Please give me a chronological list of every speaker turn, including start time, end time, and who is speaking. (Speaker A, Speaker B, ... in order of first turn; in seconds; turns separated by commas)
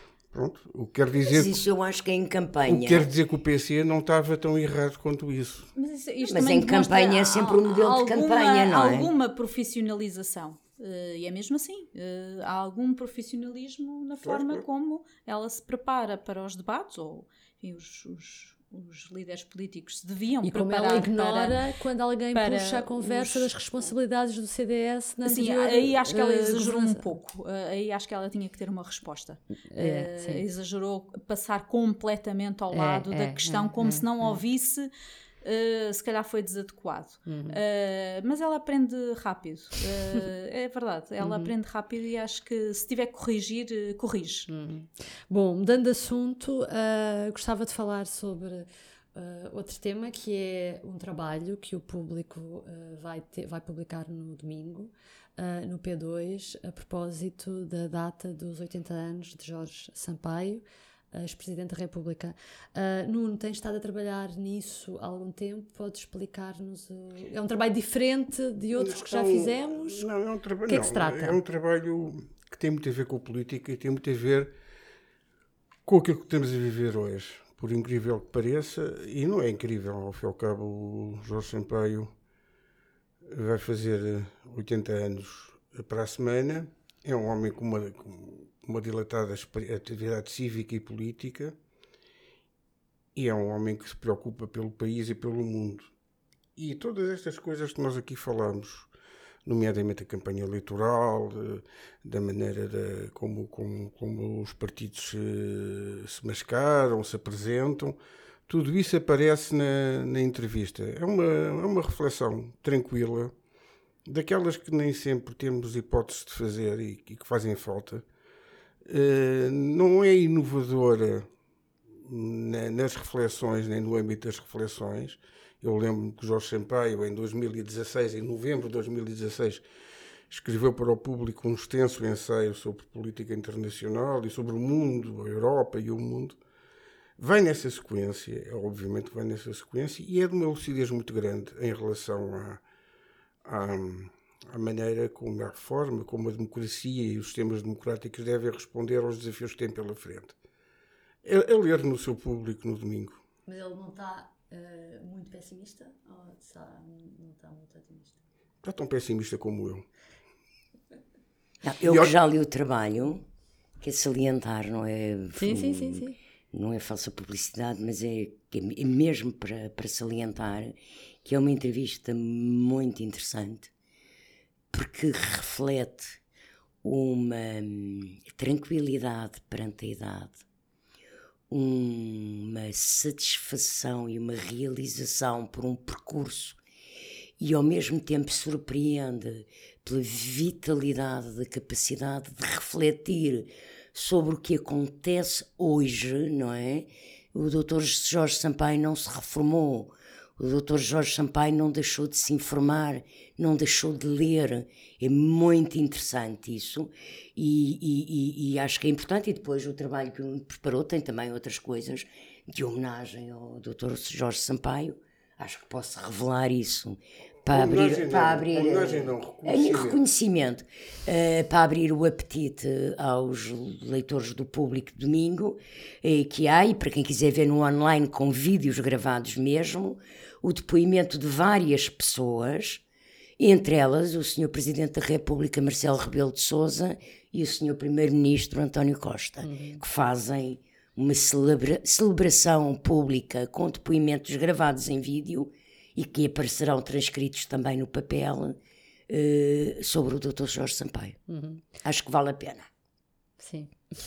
Speaker A: 0.3-1.6, Speaker B: 1.2-3.1, Speaker A: 2.6-5.7, Speaker C: 5.7-21.6, Speaker B: 6.2-9.1, Speaker A: 14.2-14.6, Speaker D: 20.4-27.1, Speaker C: 22.3-23.5, Speaker C: 25.2-34.9, Speaker D: 29.7-30.4, Speaker D: 32.7-34.4, Speaker C: 35.4-44.5, Speaker D: 37.2-37.6, Speaker D: 41.2-41.5, Speaker D: 44.5-70.1, Speaker A: 68.8-74.5, Speaker D: 70.7-71.4, Speaker A: 75.8-82.1, Speaker A: 83.2-91.5, Speaker A: 93.1-95.9, Speaker A: 96.5-98.9, Speaker A: 99.4-113.3, Speaker A: 114.0-118.0, Speaker A: 118.8-121.3, Speaker A: 122.0-129.6, Speaker A: 130.3-136.4, Speaker A: 137.2-142.6, Speaker A: 143.4-150.3, Speaker A: 151.2-153.2, Speaker D: 153.5-158.2, Speaker A: 158.6-159.8, Speaker B: 161.6-163.2, Speaker A: 161.8-162.1, Speaker B: 163.8-173.7, Speaker D: 165.3-166.2, Speaker B: 174.7-176.2, Speaker B: 176.8-180.4, Speaker B: 181.5-186.6, Speaker B: 187.4-232.8, Speaker A: 217.5-220.0, Speaker B: 233.4-248.6, Speaker D: 239.4-239.8, Speaker B: 249.1-251.2, Speaker D: 251.3-251.6, Speaker B: 251.8-252.7, Speaker D: 253.4-253.7